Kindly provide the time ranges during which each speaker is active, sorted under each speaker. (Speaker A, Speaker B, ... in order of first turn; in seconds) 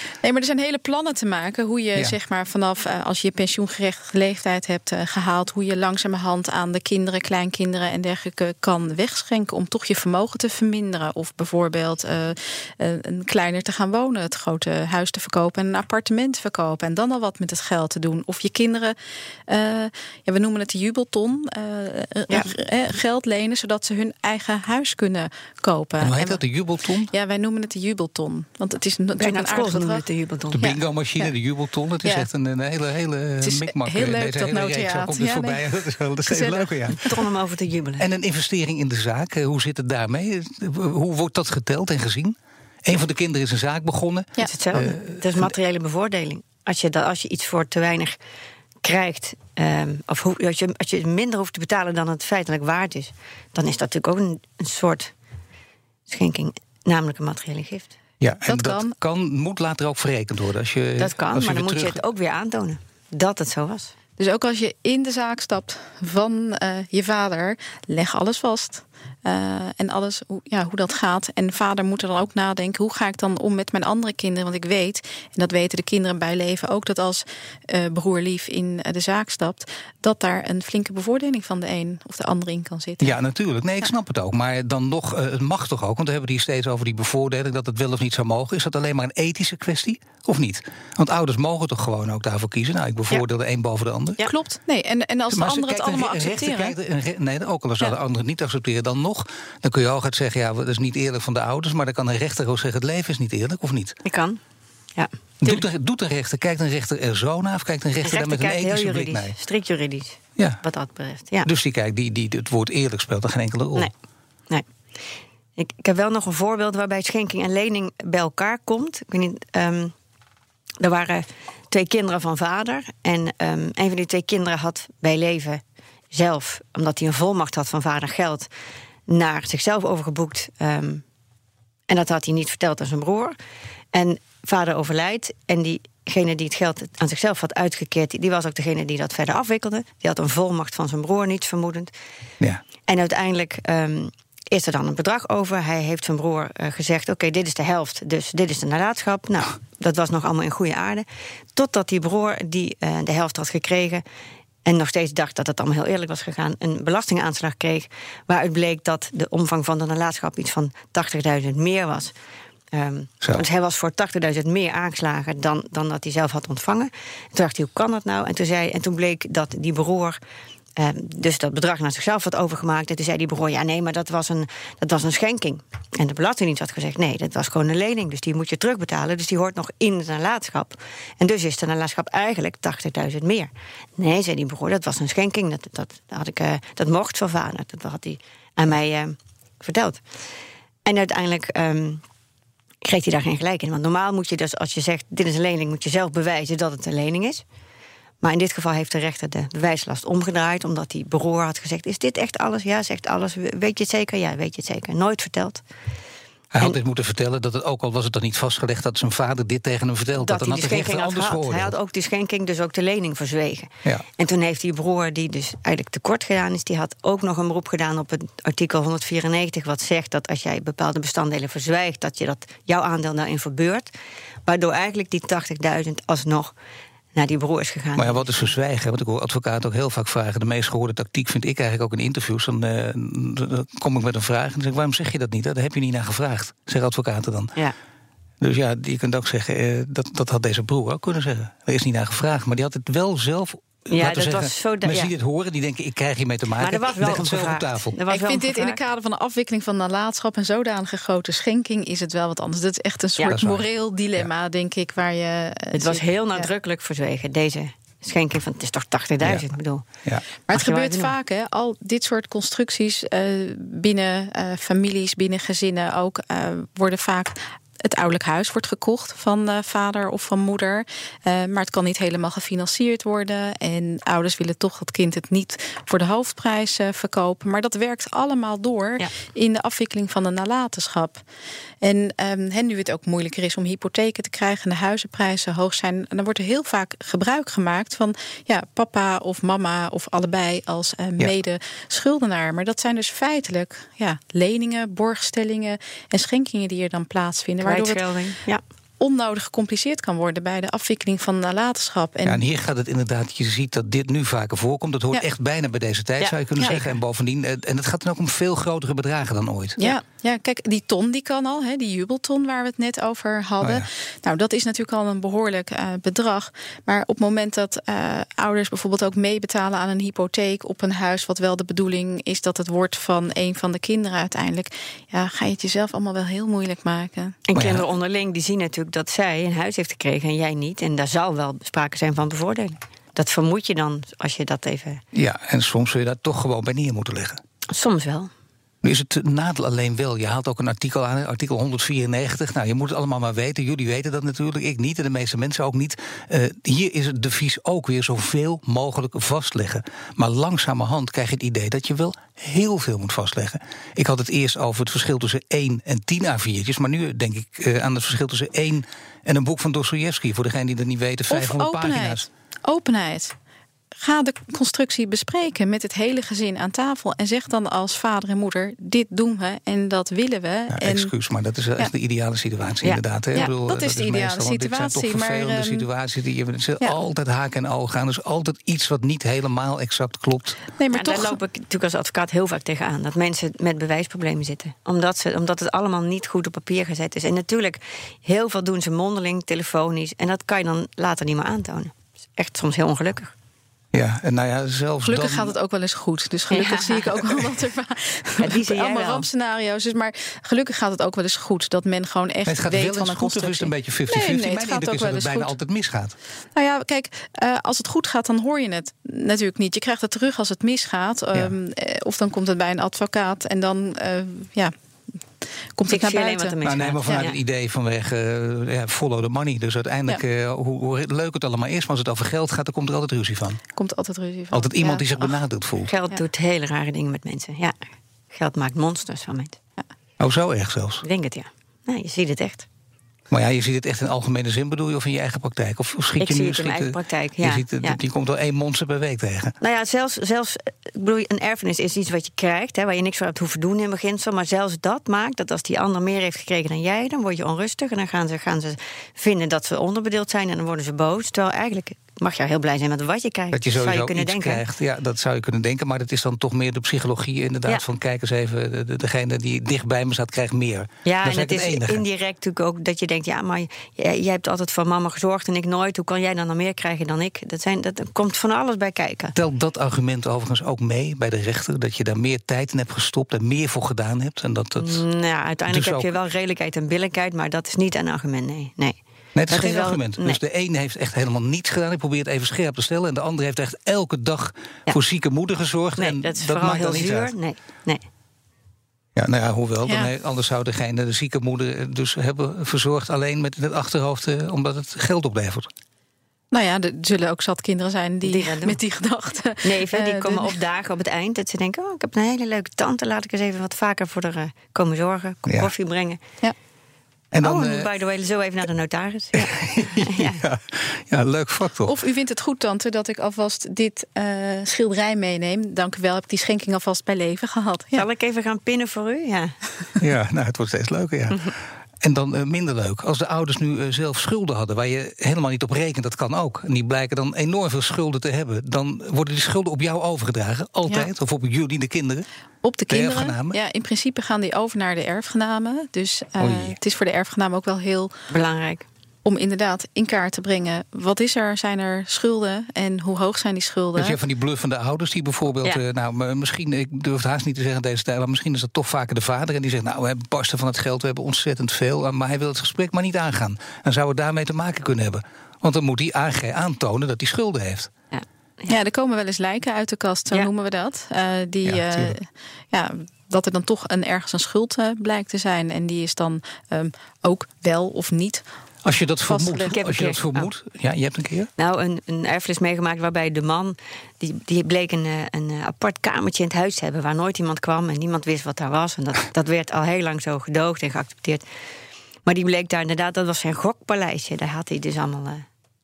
Speaker A: 0.2-18.9, 19.5-26.4, 27.1-30.0, 33.4-35.6, 36.2-36.9, 58.5-59.0, 64.2-83.2, 94.2-96.7, 248.1-256.5, 260.5-281.2, 281.8-298.0, 299.0-302.4, 309.8-327.4, 361.3-363.4, 364.0-371.1, 373.4-375.9, 380.8-381.4, 395.1-405.6, 406.6-414.7, 415.8-416.6, 423.8-425.1, 496.5-500.6, 511.9-518.0, 532.6-538.1, 539.2-544.2, 558.7-568.5, 569.3-569.7
Speaker B: 26.0-27.1, 30.5-37.2, 38.0-45.5, 58.2-62.0, 83.0-94.2, 95.3-104.0, 105.4-109.4, 111.4-113.9, 206.5-211.8, 228.0-237.5, 238.4-247.9, 253.2-253.6, 302.3-309.8, 313.6-313.9, 327.6-327.9, 335.1-337.4, 338.8-362.3, 370.7-380.6, 393.9-395.5, 402.5-406.1, 416.6-423.6, 424.5-425.9, 430.2-431.0, 433.3-439.6, 453.5-462.0, 469.4-475.1, 475.7-476.1, 479.4-487.3, 489.2-495.7, 507.3-507.9, 509.4-511.9, 520.0-532.3, 532.9-533.6, 536.4-536.8, 544.0-557.9, 561.6-562.2, 568.8-571.5
Speaker C: 29.2-30.8, 37.0-38.1, 44.4-48.2, 48.8-55.1, 56.1-58.0, 61.0-63.9, 104.0-104.4, 105.0-105.6, 108.0-111.5, 115.6-119.9, 120.8-128.5, 129.1-131.0, 131.9-133.4, 133.9-141.9, 142.9-154.0, 154.7-162.1, 162.7-170.2, 170.8-190.0, 190.8-192.0, 192.8-197.4, 198.2-205.6, 210.2-223.9, 224.5-226.5, 227.2-228.4, 243.9-245.1, 246.6-248.8, 255.8-259.8, 260.5-261.1, 297.6-298.6, 306.2-306.9, 327.5-335.0, 337.7-338.3, 380.9-393.3, 396.5-397.2, 398.4-399.3, 415.9-417.4, 425.9-429.6, 431.0-432.7, 436.2-438.0, 439.6-454.6, 461.1-469.3, 474.8-480.4, 486.0-488.0, 498.2-498.8, 499.6-506.2, 507.4-510.4, 517.9-519.9, 538.3-538.9, 558.1-558.8, 569.7-570.5, 571.6-581.4, 582.3-585.5